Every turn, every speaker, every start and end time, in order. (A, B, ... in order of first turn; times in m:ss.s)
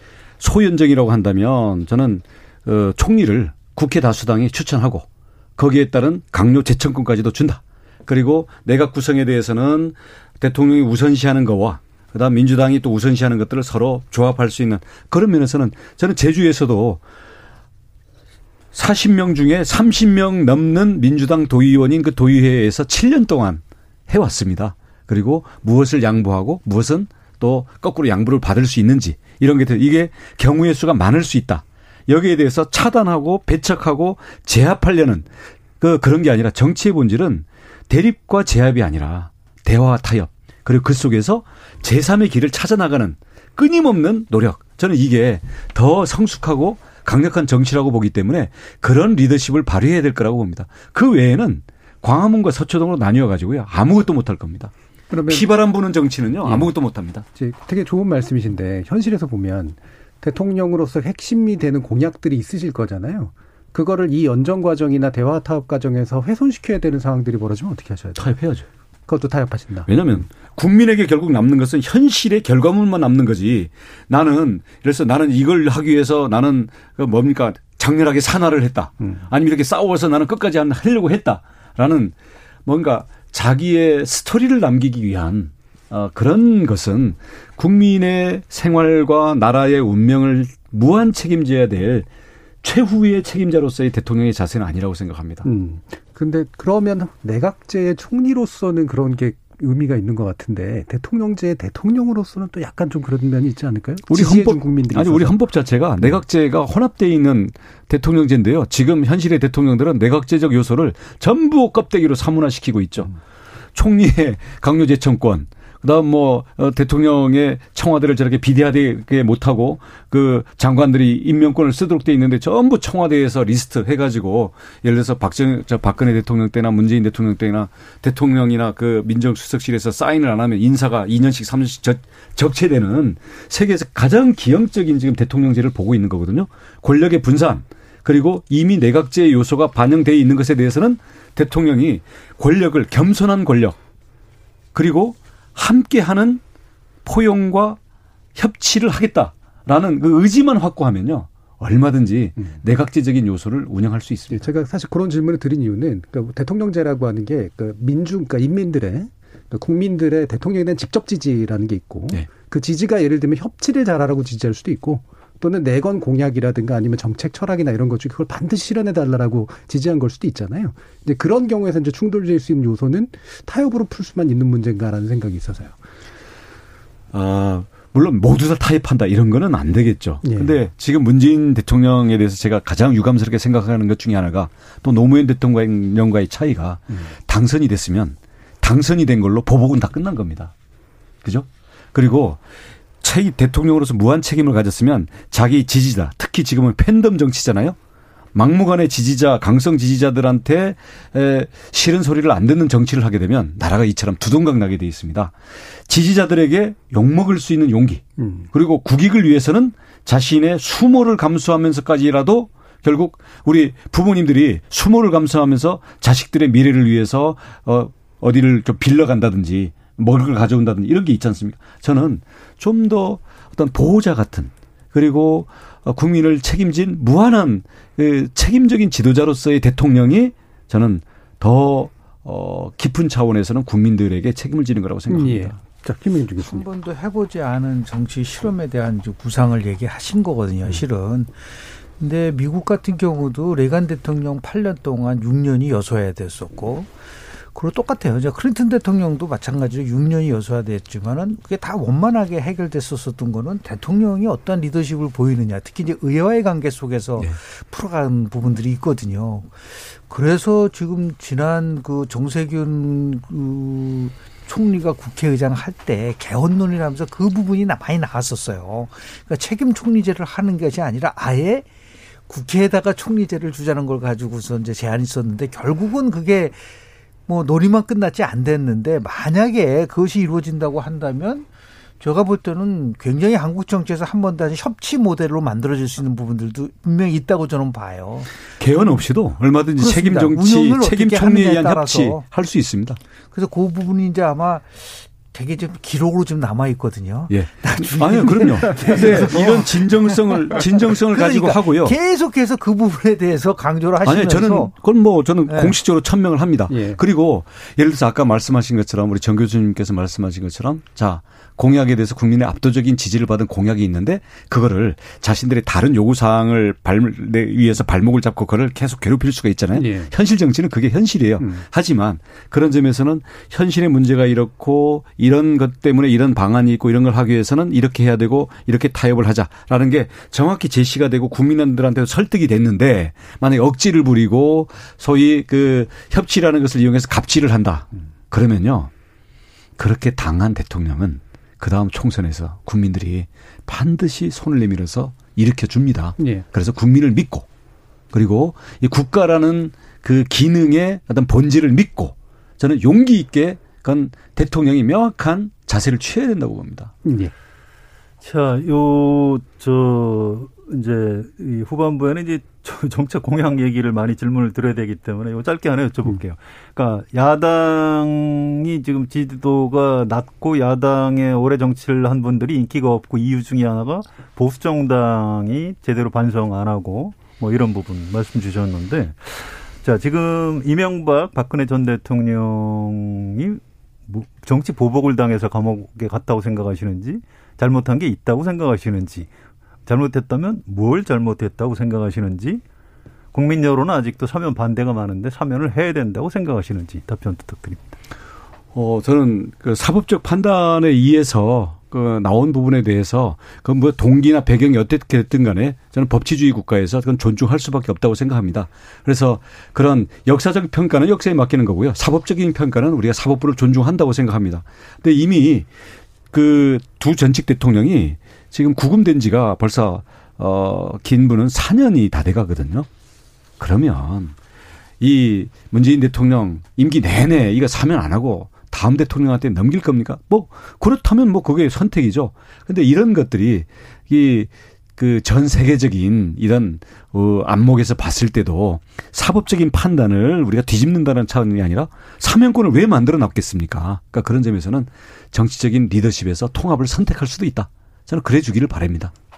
0:00.4-0:17.0 A
0:18.7-0:35.2 A
0:35.8-0:54.7 A
0:55.1-0:55.5 B
0:55.3-0:57.2 A
0:56.4-0:56.7 B
0:57.3-1:08.3 B
1:08.2-1:08.6 A
1:09.1-1:09.9 B
1:09.9-1:22.1 A
1:22.6-1:32.1 A
1:32.6-1:35.4 A
1:35.4-1:45.4 B
1:44.1-1:53.1 A
1:53.7-2:23.8 A
2:24.7-2:26.4 A
2:27.0-2:27.8 A
2:28.3-2:34.5 A
2:34.3-2:55.8 B
2:57.1-3:10.5 A
3:00.2-3:00.6 B
3:11.2-3:12.4 A
3:13.0-3:17.8 A
3:18.3-3:25.3 A
3:25.9-3:55.6 A
3:28.2-3:28.5 B
3:55.1-3:56.6 B
3:56.4-4:01.4 C
4:02.0-4:06.9 C
4:07.5-4:31.7 C
4:32.3-4:36.6 C
4:37.3-4:41.5 C
4:42.0-4:48.9 C
4:48.6-4:53.0 A
4:49.8-4:52.2 C
4:53.3-5:04.7 C
4:57.3-5:02.0 A
5:04.0-5:38.9 A
5:05.5-5:05.8 C
5:06.7-5:07.0 B
5:19.8-5:20.1 B
5:39.8-5:47.5 A
5:46.2-5:46.4 B
5:48.1-5:56.9 A
5:57.0-5:57.3 B
5:58.2-6:29.3 D
6:29.8-6:32.6 D
6:33.3-6:37.9 D
6:38.7-6:55.7 A
6:56.3-7:02.9 A
7:03.6-7:04.3 A
7:05.0-7:29.1 A